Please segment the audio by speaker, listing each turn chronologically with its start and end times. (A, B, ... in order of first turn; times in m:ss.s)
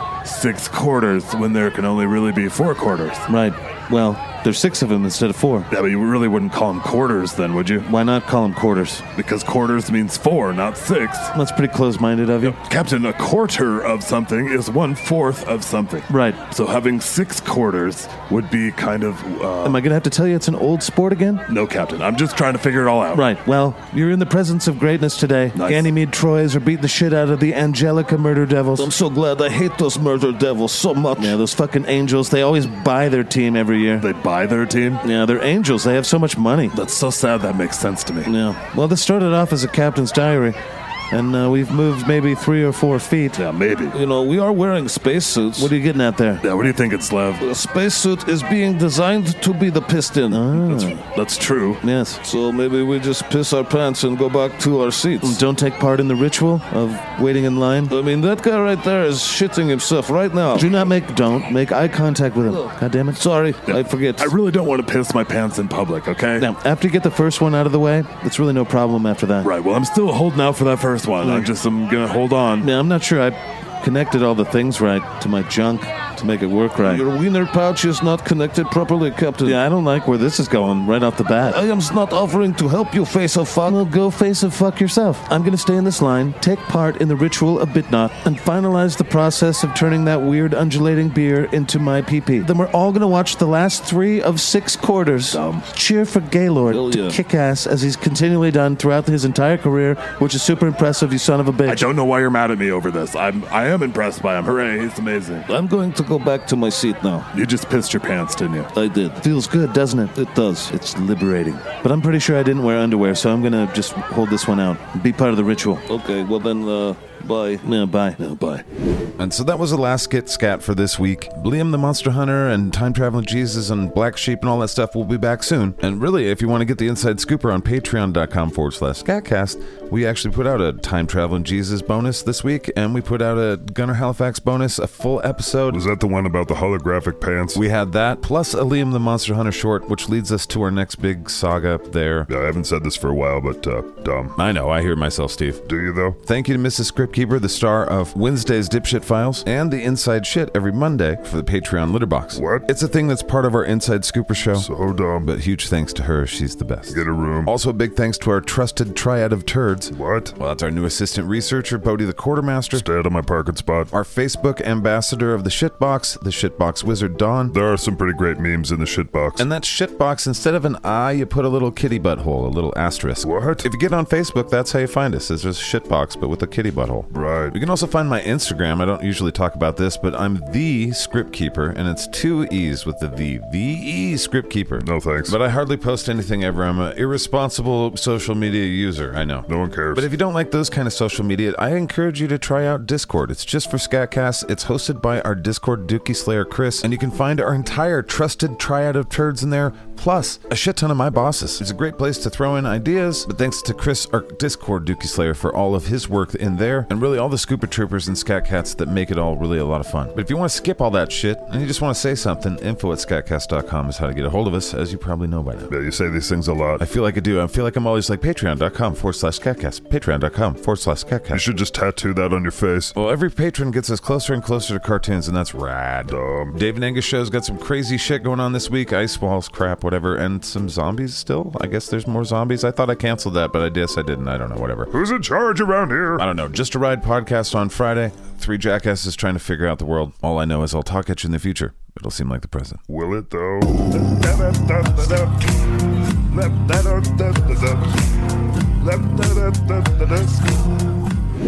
0:00.2-0:03.2 A
0:03.3-0:05.7 B
0:05.7-0:07.9 A
0:07.8-0:09.0 B
0:09.2-0:11.3 A
0:11.3-0:12.6 B
0:12.4-0:19.8 A
0:16.1-0:16.4 B
0:19.6-0:21.4 B
0:21.5-0:23.3 A
0:23.1-0:28.9 B
0:25.5-0:25.9 A
0:28.8-0:31.4 C
0:31.2-0:34.0 B
0:34.0-0:35.0 A
0:35.0-0:36.8 B
0:36.7-0:38.3 A
0:38.3-0:40.6 B
0:38.3-0:38.6 C
0:41.1-0:43.4 B
0:43.3-0:44.0 A
0:43.9-0:45.7 C
0:45.6-0:46.4 B
0:46.4-0:47.5 A
0:47.4-0:50.5 C
0:50.3-0:51.0 B
0:50.6-0:51.8 A
0:51.8-0:52.2 B
0:52.2-0:55.4 C
0:55.2-0:57.9 B
0:57.9-1:00.7 C
1:00.5-1:03.2 B
1:03.1-1:04.3 C
1:03.6-1:06.5 A
1:06.4-1:09.5 B
1:09.4-1:12.7 A
1:11.2-1:11.5 B
1:12.6-1:17.0 B
1:16.8-1:19.6 C
1:19.4-1:21.6 B
1:21.4-1:23.8 C
1:23.6-1:41.9 B
1:35.3-1:35.6 C
1:36.7-1:37.2 C
1:41.6-1:45.5 A
1:45.5-1:47.3 C
1:47.3-1:48.7 A
1:48.7-1:49.2 C
1:49.2-1:55.8 B
1:50.1-1:50.7 C
1:55.9-1:57.6 C
1:57.6-1:58.2 B
1:58.2-1:58.6 A
1:59.2-2:15.9 D
2:15.7-2:17.6 E
2:17.5-2:22.3 D
2:22.3-2:24.4 E
2:24.4-2:25.6 D
2:25.6-2:26.2 E
2:26.2-2:34.7 D
2:32.3-2:32.7 E
2:34.5-2:35.3 E
2:35.2-2:42.9 D
2:36.9-2:37.5 E
2:39.9-2:40.3 E
2:42.7-2:43.9 E
2:43.9-2:47.5 D
2:47.5-2:49.4 E
2:49.4-3:35.7 D
2:53.2-2:53.7 E
2:57.1-2:57.6 E
3:04.8-3:05.4 E
3:09.5-3:10.0 E
3:35.7-3:36.8 E
3:36.8-3:41.5 D
3:41.3-3:42.9 E
3:42.9-3:54.9 D
3:46.1-3:46.6 E
3:54.9-3:56.2 E
3:56.2-4:02.8 D
4:02.9-4:05.5 E
4:06.3-4:08.0 E
4:08.8-4:10.5 E